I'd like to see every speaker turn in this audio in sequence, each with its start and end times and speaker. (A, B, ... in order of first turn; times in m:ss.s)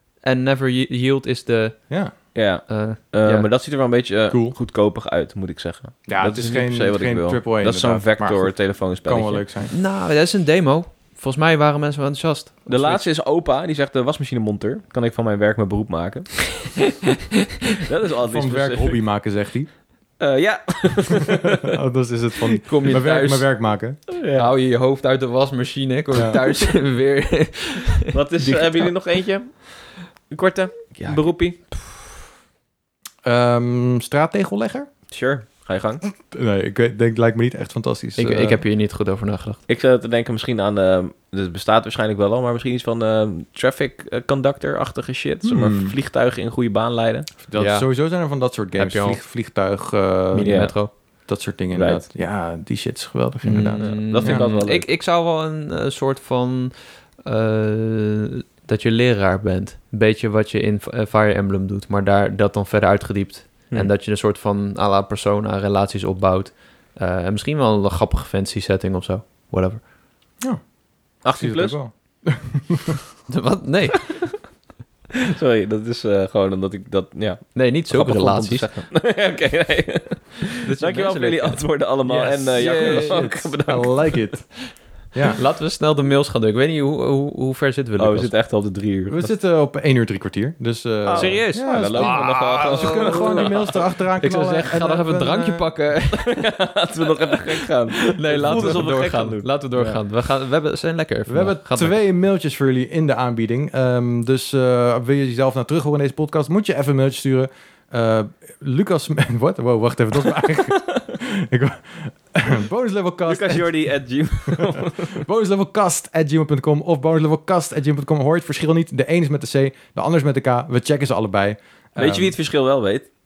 0:00.2-0:01.8 A
0:02.3-0:09.4 B
0:02.7-0:03.5 A
0:04.3-0:04.6 C
0:06.1-0:08.5 C
0:09.0-0:09.7 C
0:09.7-0:13.0 A
0:12.7-0:16.8 B
0:17.8-0:19.0 B
0:18.3-0:19.7 C
0:20.2-0:21.8 B
0:21.3-0:24.0 C
0:22.6-0:23.4 A
0:24.1-0:24.5 B
0:24.3-0:28.9 A
0:26.1-0:26.4 C
0:28.1-0:29.8 B
0:30.3-0:31.7 B
0:33.2-0:34.9 C
0:35.1-0:36.0 B
0:36.2-0:38.6 C
0:38.2-0:39.6 A
0:39.7-0:47.3 B
0:45.4-0:45.9 C
0:47.4-0:50.7 C
0:47.6-0:47.8 A
0:48.8-0:49.2 A
0:50.3-0:50.9 A
0:50.4-0:50.7 B
0:51.3-0:54.4 C
0:51.7-0:52.0 B
0:53.4-0:56.7 A
0:53.8-0:54.9 B
0:57.2-1:09.8 A
1:11.2-1:11.8 B
1:11.3-1:13.0 C
1:13.3-1:14.0 A
1:13.9-1:14.3 B
1:15.2-1:24.2 B
1:17.5-1:18.7 A
1:20.6-1:21.6 A
1:22.1-1:24.5 C
1:22.5-1:23.3 A
1:25.1-1:25.4 C
1:25.3-1:28.3 A
1:28.0-1:29.3 B
1:29.1-1:35.7 C
1:31.0-1:33.8 B
1:31.1-1:33.5 A
1:34.2-1:36.5 A
1:36.1-1:39.5 B
1:37.6-1:42.0 A
1:38.4-1:38.8 C
1:41.3-1:53.7 C
1:50.7-1:51.0 B
1:53.3-1:55.2 B
1:54.5-2:02.4 C
2:02.0-2:03.1 B